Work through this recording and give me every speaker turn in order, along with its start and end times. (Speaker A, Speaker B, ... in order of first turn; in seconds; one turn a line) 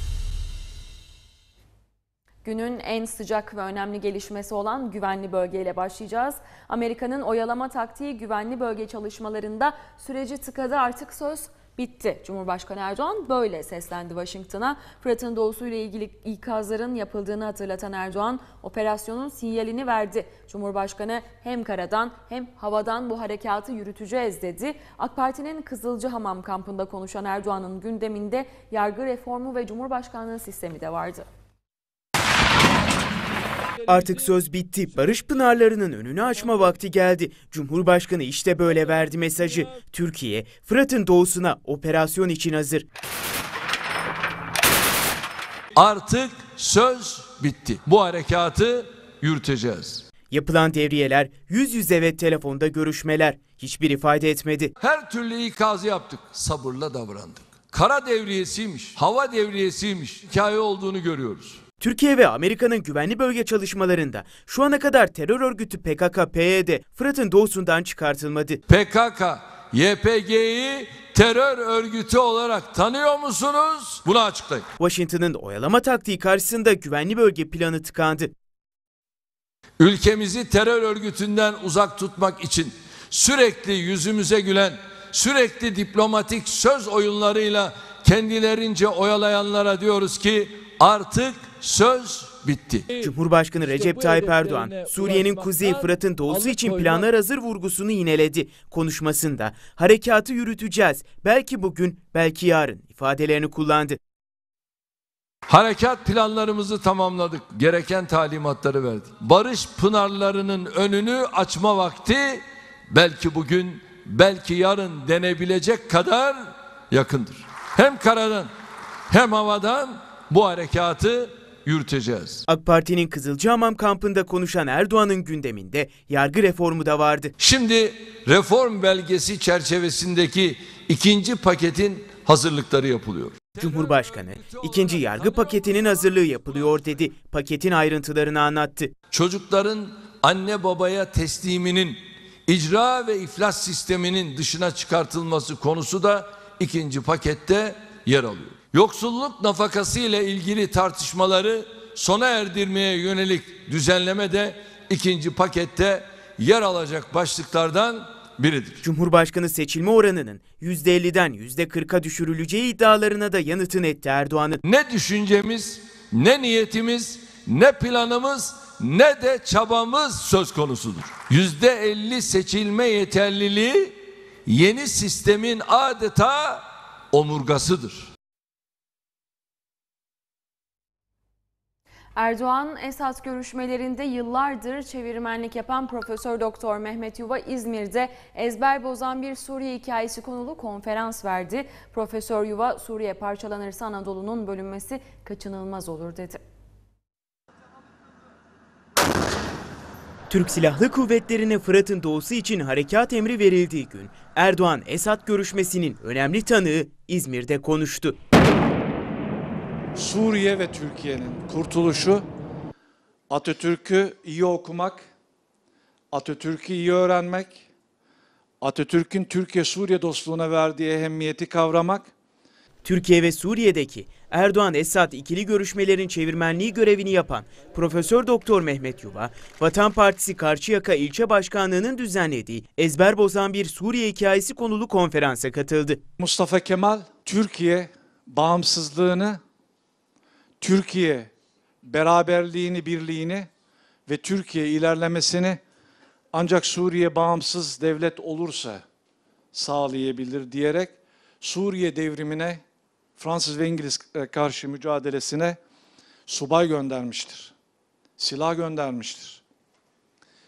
Speaker A: 2.5-31.3
Speaker B: 33.9-42.9
Speaker C: 45.8-50.0
Speaker B: 50.3-54.7
Speaker C: 54.8-61.6
Speaker B: 61.8-68.6
Speaker C: 68.7-74.7
Speaker B: 74.8-78.3
Speaker C: 79.8-92.9
Speaker B: 93.0-104.0
Speaker C: 105.5-118.5
Speaker C: 119.1-122.5
Speaker B: 122.5-127.3
Speaker C: 127.4-136.0
Speaker B: 133.6-138.9
Speaker C: 139.1-158.8
Speaker B: 158.8-164.6
Speaker C: 164.7-173.9
Speaker C: 174.5-178.1
Speaker A: 182.2-196.4
Speaker B: 200.3-208.2
Speaker D: 209.9-212.3
Speaker D: 213.3-215.1
Speaker D: 216.1-217.7
Speaker D: 218.6-222.1
Speaker B: 222.8-236.0
Speaker D: 236.2-239.4
Speaker D: 240.6-241.3
Speaker D: 241.8-243.5
Speaker D: 244.1-245.6
Speaker D: 246.3-248.8
Speaker D: 249.5-252.6
Speaker D: 253.2-255.6
Speaker D: 256.3-257.5
Speaker D: 258.2-259.4